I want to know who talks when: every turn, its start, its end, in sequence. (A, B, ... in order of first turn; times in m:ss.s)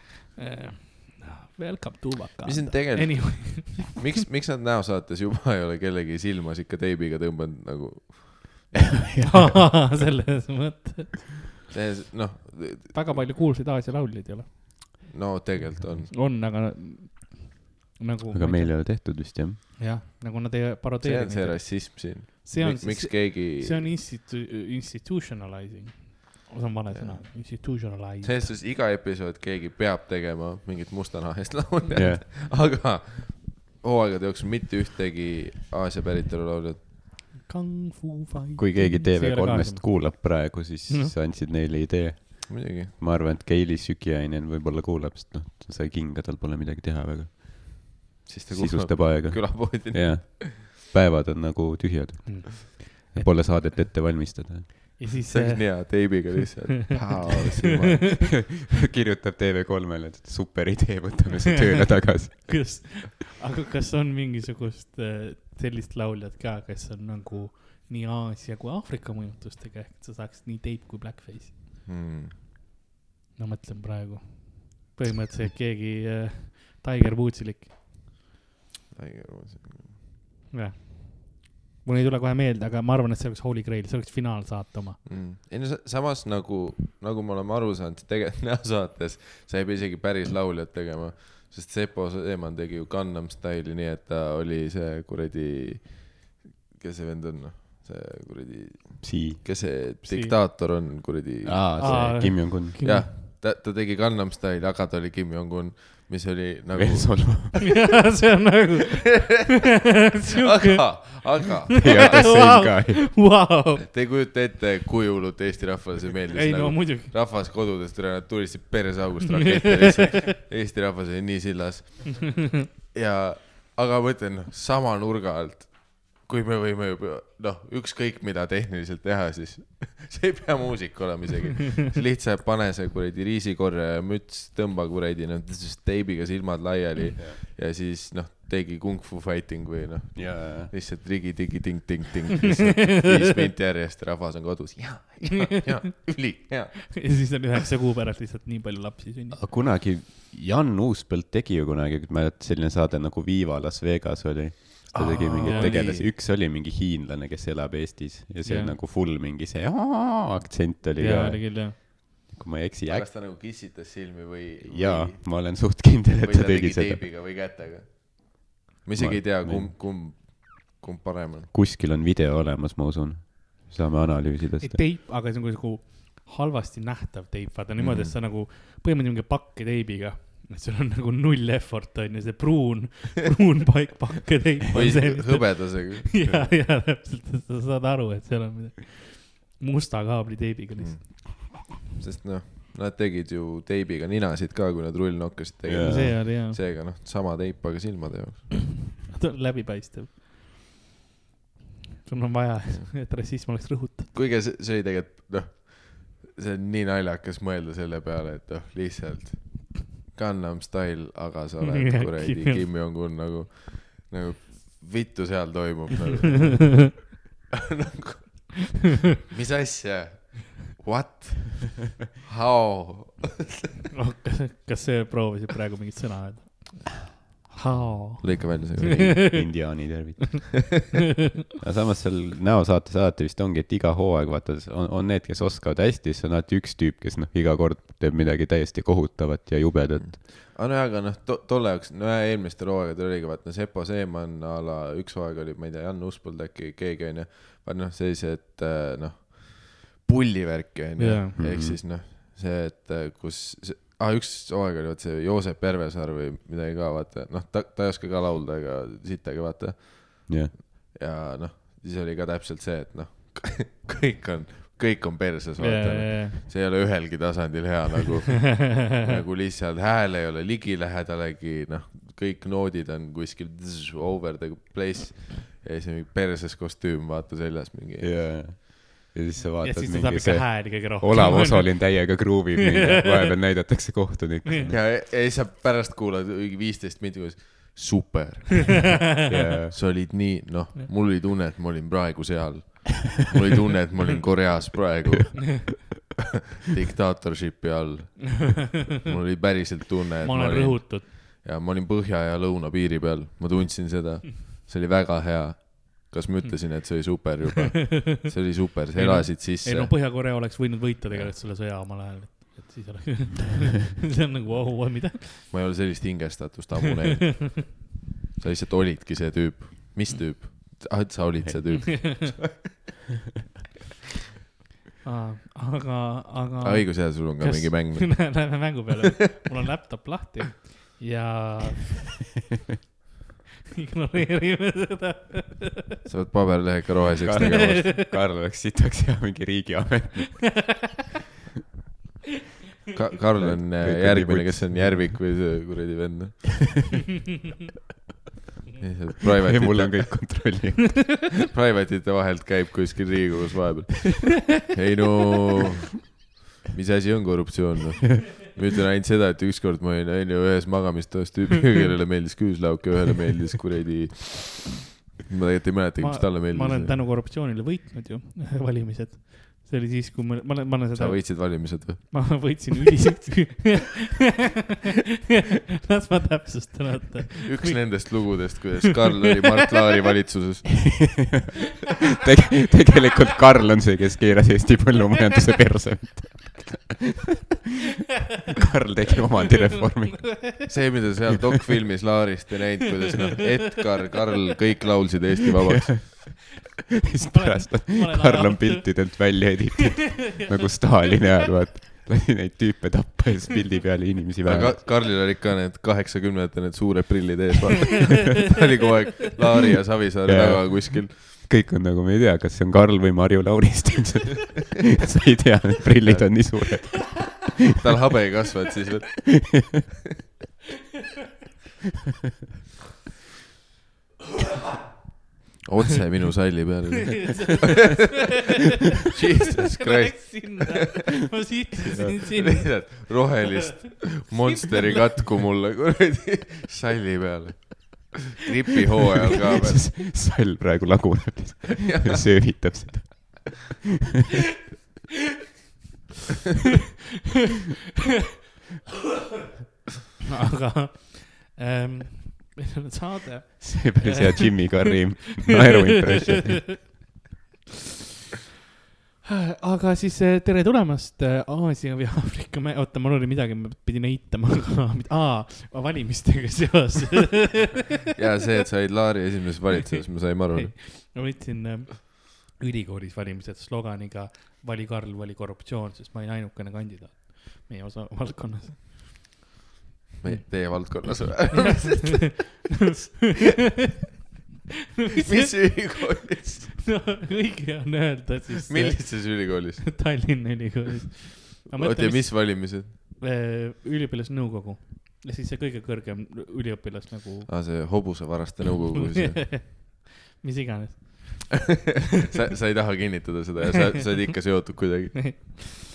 0:00.4-0:04.0 A
0:02.4-0:08.8 B
0:09.2-0:09.4 C
0:09.2-0:11.4 A
0:11.7-0:13.2 B
0:12.9-0:15.0 A
0:15.1-0:16.1 B
0:16.1-0:28.5 A
0:18.3-0:19.6 C
0:21.0-0:23.9 B
0:26.9-0:36.8 B
0:31.9-0:32.2 C
0:37.4-0:41.1 A
0:38.6-0:55.0 C
0:42.5-0:42.9 B
0:48.2-0:50.5 B
0:52.2-0:53.2 A
0:55.0-0:56.3 A
0:55.3-0:58.2 B
0:57.0-0:58.5 A
0:58.2-1:02.8 C
1:02.3-1:11.6 A
1:11.8-1:12.3 B
1:13.4-1:17.7 A
1:18.9-1:20.0 B
1:20.5-1:25.0 A
1:25.0-1:47.6 B
1:39.0-1:39.4 C
1:40.0-1:40.4 A
1:41.4-1:42.8 C
1:41.8-1:43.1 A
1:46.7-1:47.6 C
1:47.6-1:49.6 A
1:50.1-1:53.8 A
1:50.4-1:52.4 B
1:51.8-1:53.1 C
1:53.8-2:27.0 B
1:56.3-1:57.1 A
1:59.4-2:00.3 A
2:20.1-2:20.7 C
2:26.9-2:29.4 A
2:29.3-2:43.1 C
2:35.0-2:35.8 A
2:35.4-2:36.1 B
2:38.4-2:38.8 A
2:41.0-2:41.8 A
2:42.9-2:45.6 B
2:44.6-2:47.0 C
2:46.2-2:51.5 B
2:49.0-2:49.7 C
2:51.5-2:54.8 C
2:54.6-3:11.3 A
2:57.8-2:58.1 B
3:04.7-3:06.4 B
3:10.8-3:18.6 B
3:15.7-3:16.2 C
3:15.8-3:16.6 A
3:19.0-3:20.2 A
3:22.0-3:24.1 A
3:24.1-3:37.0 B
3:31.6-3:32.6 A
3:37.7-3:38.8 B
3:39.3-3:43.4 B
3:43.9-3:49.7 A
3:48.2-3:49.5 B
3:49.2-3:50.7 C
3:51.6-4:00.2 C
4:00.0-4:38.1 B
4:11.0-4:11.4 A
4:11.4-4:11.8 C
4:25.6-4:26.4 A
4:38.0-4:44.8 C
4:39.6-4:43.2 A
4:44.4-4:44.7 A
4:44.7-4:49.1 B
4:49.3-4:49.7 C
4:49.7-4:55.9 B
4:56.7-5:10.5 B
5:00.2-5:01.1 A
5:07.9-5:15.6 A
5:11.1-5:11.3 B
5:15.4-5:17.8 B
5:18.4-5:22.4 B
5:21.9-5:22.3 A
5:25.0-5:32.0 A
5:26.6-5:28.7 B
5:33.8-5:36.0 A
5:36.0-5:37.9 B
5:37.2-5:40.7 C
5:37.4-5:38.0 A
5:42.9-5:46.9 B
5:43.4-5:45.2 C
5:48.8-5:50.5 B
5:49.4-5:51.2 C
5:51.5-5:56.2 B
5:56.7-6:07.0 B
6:06.0-6:14.2 A
6:10.9-6:12.6 B
6:15.8-6:18.6 A
6:17.4-6:21.2 B
6:21.1-6:21.4 C
6:22.2-6:27.1 C
6:28.5-6:30.7 C
6:30.3-6:30.6 A
6:30.7-6:36.3 B
6:35.8-6:44.8 C
6:37.2-6:39.2 A
6:40.2-6:40.4 A
6:44.4-6:51.2 B
6:50.2-6:57.6 C
6:56.0-6:57.0 B
6:57.8-6:59.7 B
6:59.4-6:59.7 C
7:05.6-7:07.7 B
7:07.4-7:08.2 A
7:09.1-7:10.8 B
7:09.7-7:13.3 A
7:12.2-7:19.9 B
7:14.0-7:14.7 A
7:19.6-7:23.7 C
7:30.3-7:35.1 A
7:33.6-7:36.8 C
7:36.7-7:37.0 A
7:39.2-7:47.8 A
7:48.1-7:50.8 B
7:50.5-7:59.4 A
8:00.2-8:02.3 B
8:00.3-8:01.3 A
8:05.0-8:18.2 A
8:05.2-8:07.0 B
8:08.6-8:10.3 B
8:11.7-8:12.9 B
8:17.5-8:19.5 B
8:19.2-8:21.8 A
8:22.2-8:25.6 B
8:25.2-8:25.8 A